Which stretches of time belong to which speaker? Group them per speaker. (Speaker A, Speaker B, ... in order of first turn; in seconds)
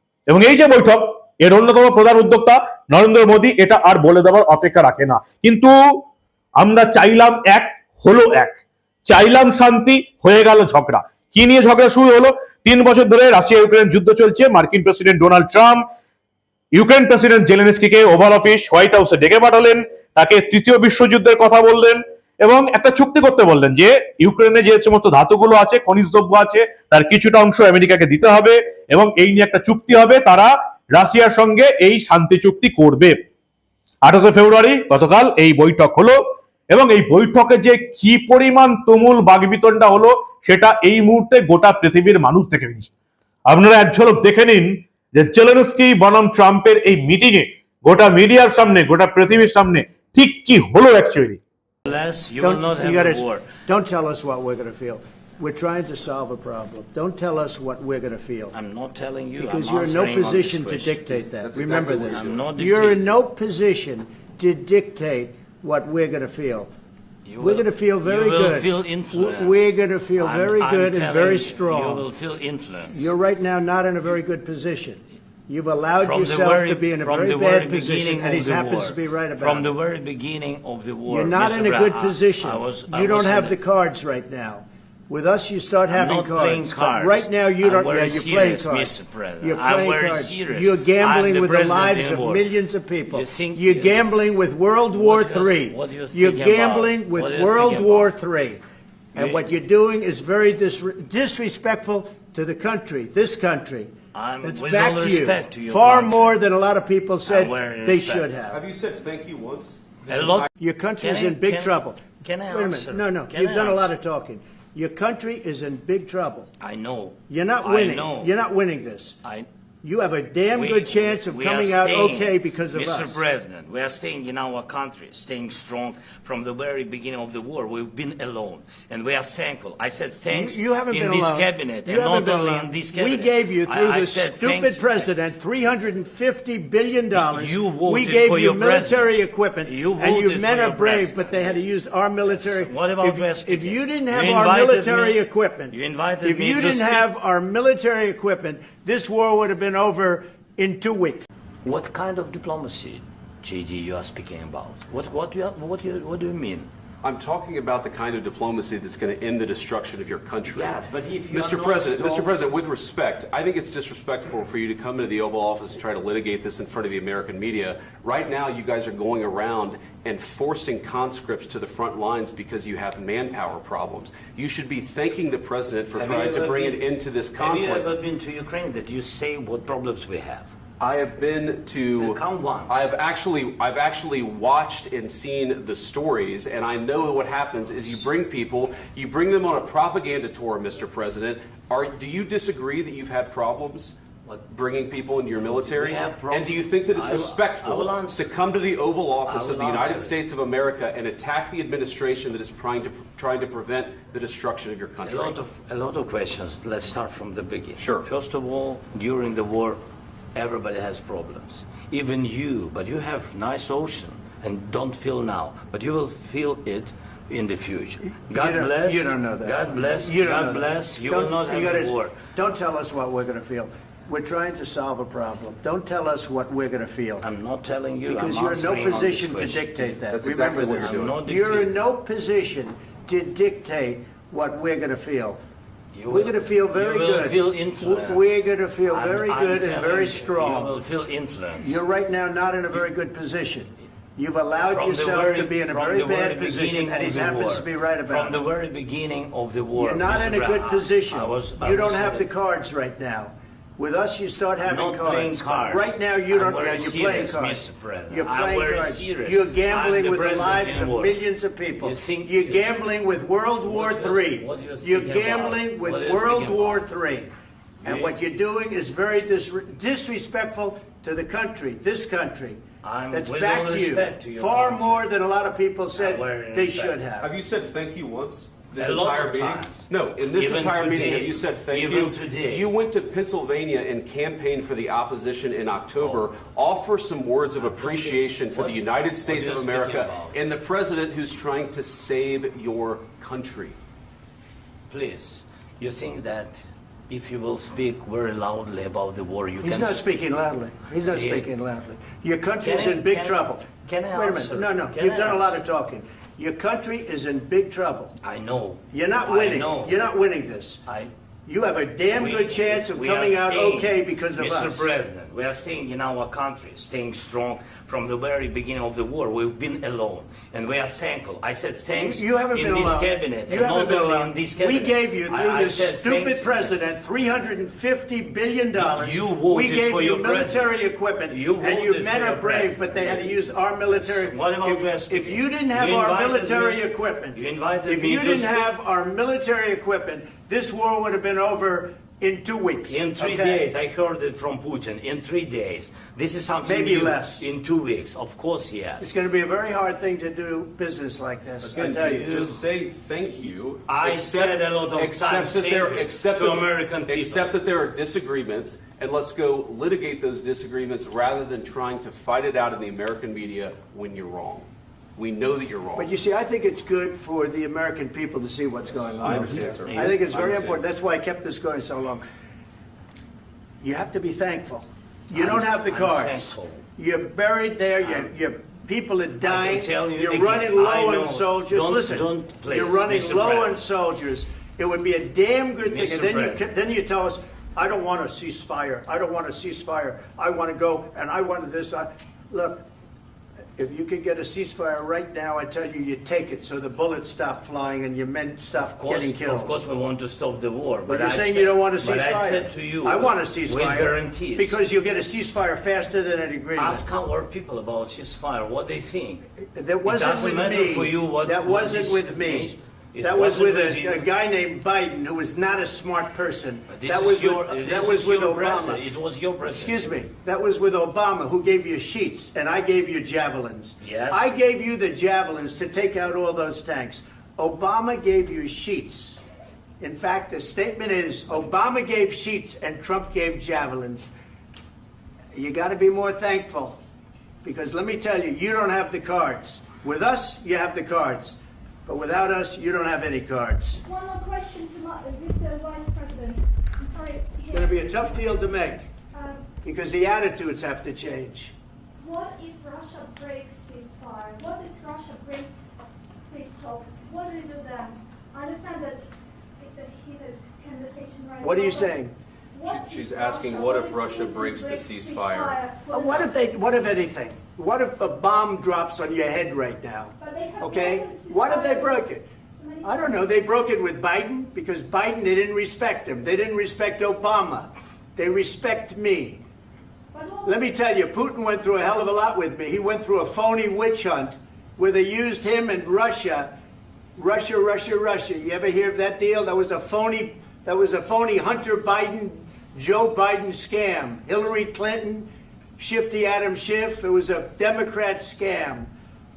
Speaker A: 0.3-6.0, 6.6-15.8, 16.7-33.1, 34.0-36.2, 36.7-42.9, 43.5-51.4
Speaker B: 51.9-53.5, 58.5-61.3, 62.1-63.0, 67.3-73.1, 76.0-83.5, 85.9-92.4, 93.1-94.0, 94.9-98.1, 99.2-99.4, 104.1-106.3, 107.2-108.3, 110.1-113.9, 116.6-118.3, 120.5-135.1, 137.1-139.1, 139.6-141.2, 142.2-145.2, 145.7-147.0, 151.6-156.7, 160.4-162.4, 175.9-180.5, 181.9-182.9, 195.3-198.4, 199.2-200.2, 205.0-209.8, 210.3-222.1, 227.2-230.0, 230.8-231.7, 235.9-241.8, 244.7-252.3, 254.6-261.1, 261.8-262.6, 263.6-266.8, 267.8-268.1, 272.8-275.0, 275.9-277.0, 278.7-282.7, 286.0-286.3, 287.6-290.4, 294.9-300.0, 301.1-301.5, 302.6-305.6, 308.2-310.0, 312.1-326.8, 328.8-330.7, 331.3-333.3, 333.9-338.6, 342.9-349.0, 351.8-352.6, 353.9-357.5, 369.2-370.8, 375.3-376.8, 378.0-378.3, 379.4-383.7, 385.8-386.6, 398.8-404.8, 406.7-409.4, 410.0-414.3, 416.9-420.1, 424.0-424.5
Speaker C: 52.4-58.5, 59.4-66.7, 67.4-72.1, 72.9-79.7, 81.1-98.6, 99.1-103.9, 104.4-108.6, 110.6-112.0, 112.5-116.5, 117.3-119.2, 119.8-123.3, 130.3-151.3, 218.0-227.2, 228.0-235.4, 236.1-240.8, 241.6-248.5, 249.7-267.3, 267.8-272.6, 273.1-277.3, 299.6-308.1, 308.9-310.8, 311.4-314.9, 321.9-343.7, 346.6-347.5, 349.0-352.2, 365.9-372.2, 373.8-392.9, 393.8-399.8, 401.1-407.1, 409.6-419.0, 419.7-429.4, 430.0-434.3, 435.5-436.9, 437.6-444.0, 447.7-449.0, 449.8-451.7, 461.6-462.3, 466.1-472.4, 473.0-479.6, 480.6-486.7, 487.4-499.1
Speaker D: 61.4-62.5, 108.5-110.5, 157.0-177.9, 180.8-194.0, 194.5-205.4, 207.8-208.1, 230.1-231.2, 277.2-293.8, 351.6-366.1, 369.2-370.7, 462.8-465.8
Speaker E: 444.0-448.1, 449.3-449.7, 452.2-455.9, 456.5-462.2, 462.7-467.0, 470.4-472.3, 472.8-473.4, 480.3-480.8